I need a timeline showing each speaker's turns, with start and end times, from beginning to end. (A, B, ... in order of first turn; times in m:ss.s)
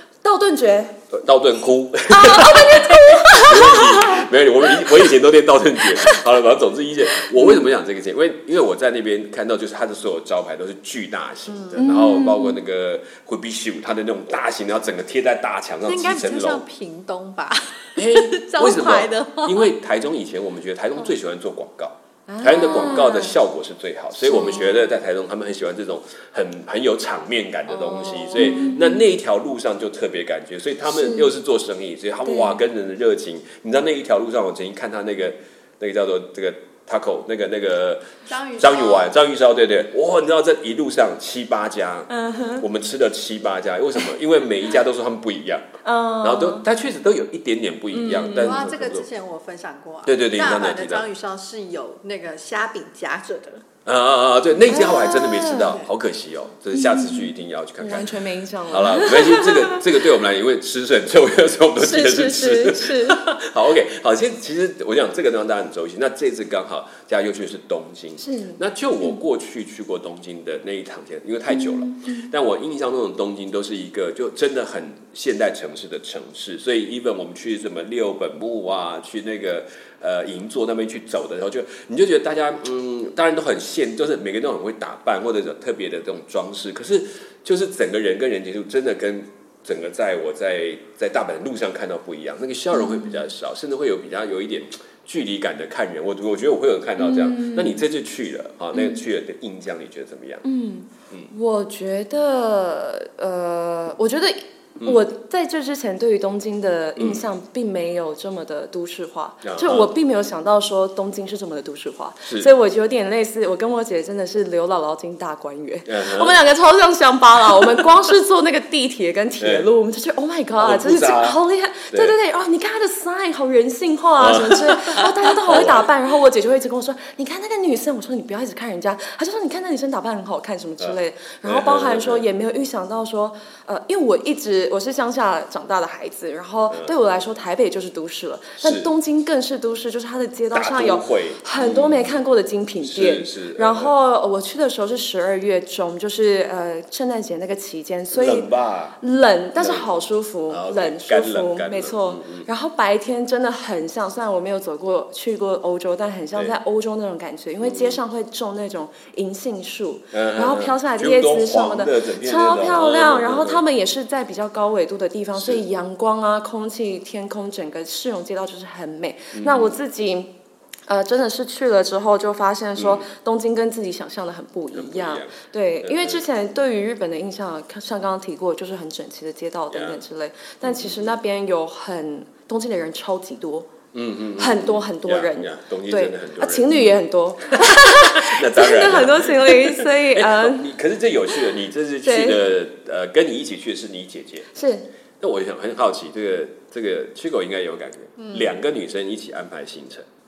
0:00.2-0:01.0 A
0:01.1-0:16.6 B
0:02.1-0:05.1 A
0:05.9-0:06.2 A
0:07.3-0:07.6 A
0:11.7-0:12.6 A
0:15.8-0:19.7 C
0:18.0-0:45.6 B
0:22.3-0:23.4 A
0:24.2-0:24.8 A
0:27.9-0:29.0 A
0:30.9-0:31.3 A
0:32.2-0:32.6 A
0:38.3-0:39.1 C
0:42.1-0:42.6 A
0:45.8-0:46.6 A
0:46.2-0:49.1 B
0:47.9-0:48.6 A
0:48.3-0:53.6 C
0:50.0-0:51.0 B
0:53.8-0:58.1 B
0:54.7-0:55.8 A
0:56.7-0:59.8 A
0:58.7-1:40.4 B
1:01.8-1:03.2 A
1:08.2-1:09.2 A
1:11.5-1:12.3 A
1:32.7-1:33.2 A
1:37.0-1:37.8 A
1:38.7-1:39.0 A
1:40.4-2:50.3 A
1:47.0-1:47.2 B
1:49.4-1:49.9 B
1:55.9-1:56.4 B
1:59.4-1:59.7 B
2:00.6-2:01.4 B
2:04.2-2:05.9 B
2:10.8-2:12.2 B
2:18.6-2:18.9 B
2:20.5-2:22.1 B
2:22.8-2:23.9 B
2:28.1-2:29.0 B
2:29.6-2:32.5 B
2:37.6-2:38.0 B
2:40.1-2:43.6 B
2:45.4-2:45.6 B
2:49.3-2:49.8 B
2:50.9-3:03.7 A
2:52.8-2:53.1 B
2:54.7-2:56.2 B
2:59.7-3:00.0 B
3:00.6-3:01.1 B
3:03.9-3:06.9 B
3:04.4-3:10.7 A
3:07.5-3:14.5 B
3:12.0-3:12.4 A
3:14.5-3:14.9 A
3:15.2-3:20.0 B
3:18.2-3:18.5 C